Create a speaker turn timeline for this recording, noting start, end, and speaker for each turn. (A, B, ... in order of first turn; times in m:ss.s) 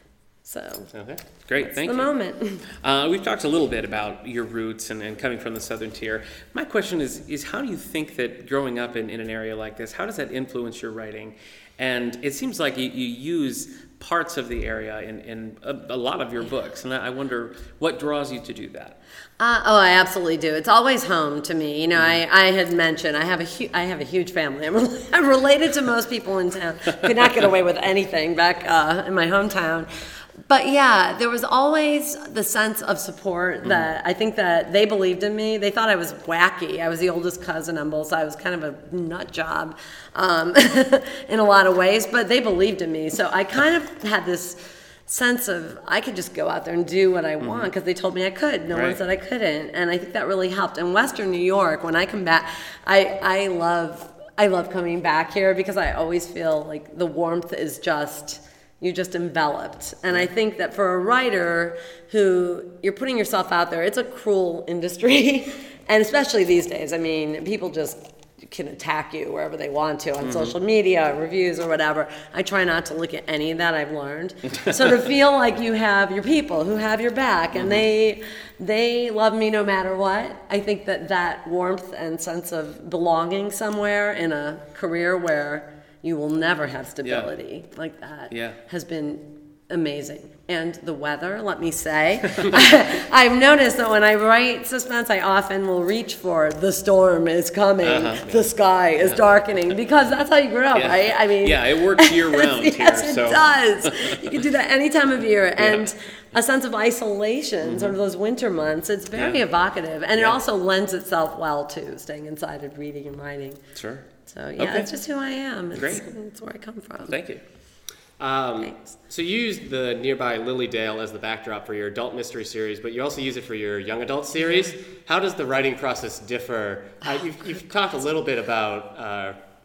0:00.4-0:00.9 A
0:00.9-0:01.2 B
0:01.4-0:02.1 C
0:01.6-0:02.6 A
0:02.8-0:19.0 C
0:19.4-0:29.9 A
0:30.5-1:53.6 A
0:47.4-0:47.7 C
0:48.7-0:49.0 C
1:10.2-1:10.5 C
1:17.6-1:17.8 C
1:27.0-1:27.3 C
1:28.3-1:28.6 C
1:37.8-1:38.4 C
1:40.7-1:44.4 C
1:45.6-1:45.9 C
1:47.6-1:48.0 C
1:49.2-1:49.4 C
1:53.8-1:54.0 C
1:54.3-1:57.2 A
1:54.6-1:54.9 C
1:55.8-1:56.1 C
1:57.1-1:57.4 C
1:58.2-2:09.4 B
1:58.6-1:58.9 A